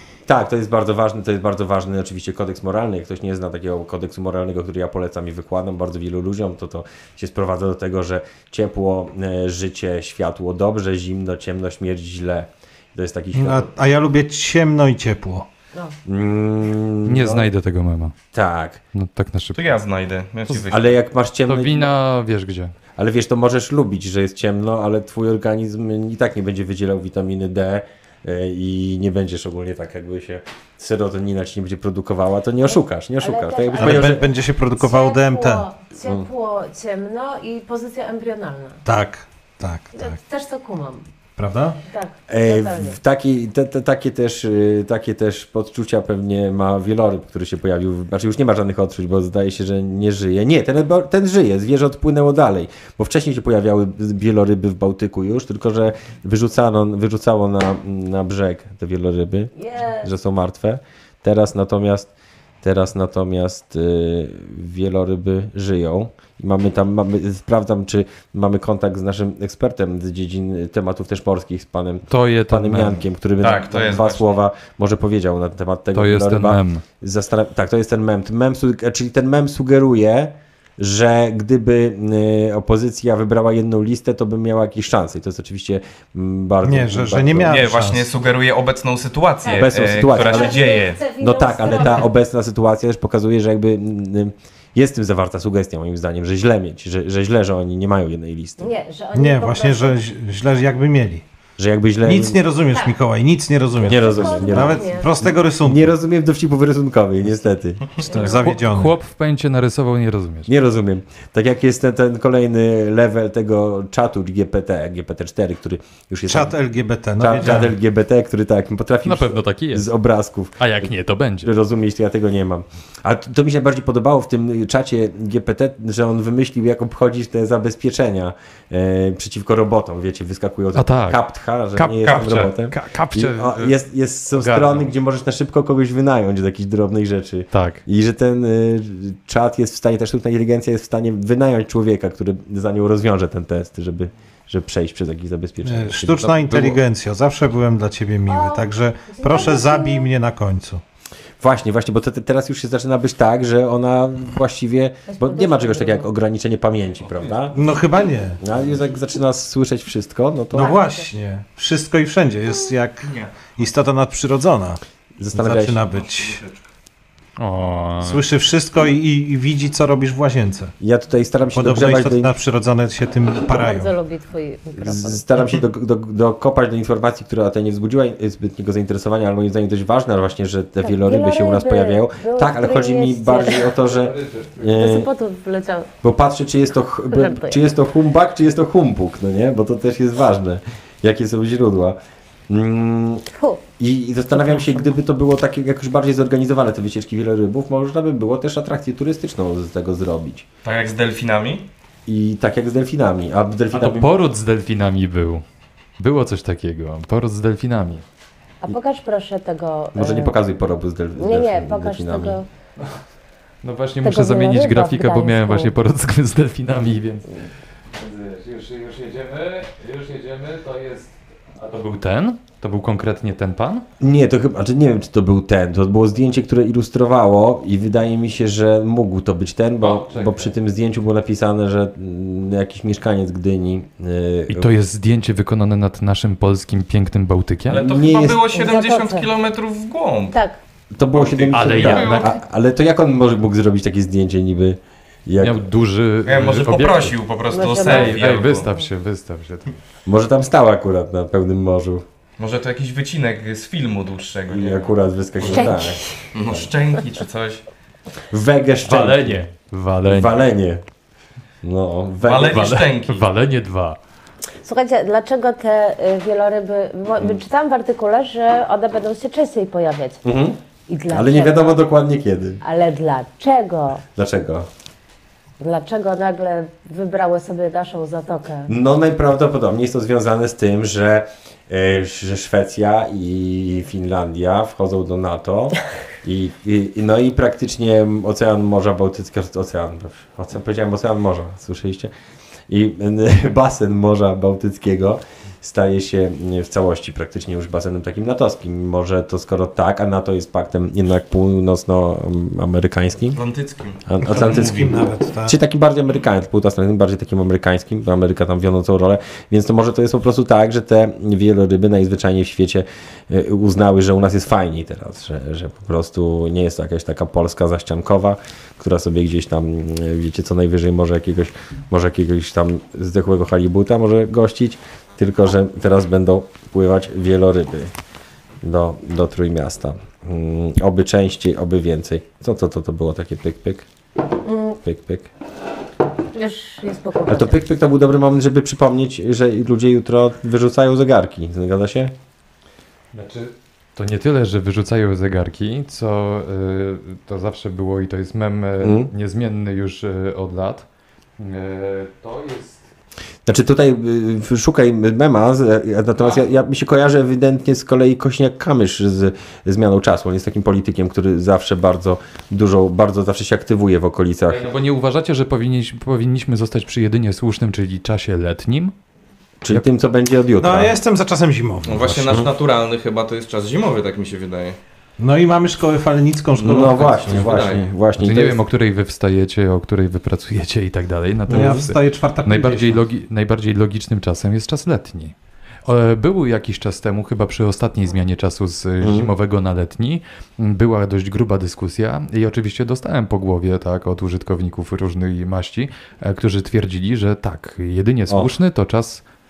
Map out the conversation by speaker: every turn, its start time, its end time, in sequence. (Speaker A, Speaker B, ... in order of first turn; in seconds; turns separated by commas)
Speaker A: 0.3-13.7, Speaker B: 13.3-15.5, Speaker A: 16.1-17.5, Speaker C: 17.1-18.1, Speaker A: 18.3-18.8, Speaker C: 18.9-19.6, Speaker D: 19.6-20.9, Speaker A: 20.7-21.9, Speaker C: 21.5-22.7, Speaker A: 22.9-34.3, Speaker E: 32.6-38.8, Speaker B: 33.8-35.6, Speaker B: 38.8-40.1, Speaker E: 39.9-41.0, Speaker B: 41.4-41.8, Speaker E: 41.8-43.0, Speaker A: 42.3-59.5, Speaker E: 59.5-60.1, Speaker A: 60.0-62.1, Speaker A: 62.6-87.6, Speaker C: 72.1-73.0, Speaker D: 73.4-74.3, Speaker C: 75.9-76.8, Speaker B: 86.6-88.1, Speaker D: 87.5-91.0, Speaker E: 89.4-92.1, Speaker A: 89.5-98.7, Speaker E: 98.6-100.0, Speaker B: 99.1-101.2, Speaker A: 101.6-102.4, Speaker B: 102.0-105.9, Speaker E: 102.7-103.0, Speaker A: 103.8-108.0, Speaker E: 103.8-105.1, Speaker E: 108.0-108.5, Speaker B: 108.0-109.0, Speaker C: 108.2-110.5, Speaker A: 110.5-116.5, Speaker B: 116.3-117.7, Speaker A: 117.2-120.9, Speaker C: 119.0-119.9, Speaker C: 120.6-121.5, Speaker A: 121.4-146.8, Speaker C: 130.7-131.2, Speaker C: 131.8-133.7, Speaker C: 134.3-134.8, Speaker C: 137.5-137.8, Speaker B: 145.6-150.8, Speaker E: 148.3-150.1, Speaker A: 151.4-157.6, Speaker E: 155.1-156.1, Speaker B: 157.5-158.4, Speaker A: 158.4-160.8, Speaker B: 160.5-164.8, Speaker E: 160.6-161.1, Speaker D: 163.0-163.3, Speaker A: 165.2-165.8, Speaker B: 165.3-166.4, Speaker D: 166.0-166.5, Speaker C: 167.4-168.2, Speaker B: 168.0-170.7, Speaker A: 170.8-172.3, Speaker B: 171.5-173.9, Speaker E: 173.5-175.2, Speaker A: 174.8-185.1, Speaker E: 180.8-183.7, Speaker C: 183.8-184.7, Speaker E: 184.7-185.9, Speaker A: 186.0-192.0, Speaker E: 187.1-187.6, Speaker A: 192.5-193.2, Speaker E: 193.3-193.6, Speaker A: 193.8-200.4, Speaker D: 200.6-201.7, Speaker A: 202.1-204.1, Speaker C: 203.7-205.4, Speaker C: 206.0-208.0, Speaker E: 208.6-210.3, Speaker A: 209.9-212.4, Speaker E: 211.2-212.4, Speaker C: 213.6-217.3, Speaker E: 214.0-215.7, Speaker C: 217.9-223.8, Speaker A: 224.0-234.7, Speaker C: 229.8-230.5, Speaker C: 234.5-237.8, Speaker A: 237.7-238.4, Speaker D: 237.7-240.4, Speaker E: 238.5-239.3, Speaker E: 240.3-240.6, Speaker A: 240.9-245.6, Speaker D: 241.1-242.3, Speaker C: 241.5-242.3, Speaker C: 245.4-247.2, Speaker D: 246.2-248.7, Speaker E: 247.5-248.2, Speaker C: 247.8-249.7, Speaker A: 250.1-252.0, Speaker D: 252.4-255.7, Speaker A: 254.5-256.7, Speaker E: 255.4-256.2, Speaker D: 256.3-257.6, Speaker A: 258.3-259.4, Speaker C: 258.8-260.4, Speaker A: 260.1-260.8, Speaker A: 261.6-262.6, Speaker D: 262.2-263.2, Speaker C: 262.5-264.0, Speaker E: 264.6-270.2, Speaker A: 270.2-270.6, Speaker E: 270.9-271.8, Speaker A: 271.1-272.6, Speaker E: 272.6-274.0, Speaker A: 274.1-274.7, Speaker E: 275.6-278.7, Speaker A: 278.7-292.1, Speaker A: 292.7-303.4, Speaker D: 303.3-304.0, Speaker A: 304.1-327.9, Speaker B: 304.2-305.6, Speaker A: 328.6-333.9, Speaker E: 334.4-334.8, Speaker A: 334.8-335.3, Speaker E: 336.3-337.6, Speaker A: 337.3-342.1, Speaker C: 343.1-350.9, Speaker A: 348.8-349.1, Speaker C: 351.4-352.8, Speaker A: 353.4-364.7, Speaker C: 364.5-368.9, Speaker A: 369.6-371.0, Speaker B: 370.6-372.4, Speaker D: 371.9-374.8, Speaker B: 375.2-377.5, Speaker A: 376.6-378.6, Speaker D: 376.7-377.8, Speaker C: 378.2-385.3, Speaker A: 381.5-381.9, Speaker B: 381.5-383.0, Speaker C: 385.8-399.2, Speaker A: 389.0-389.3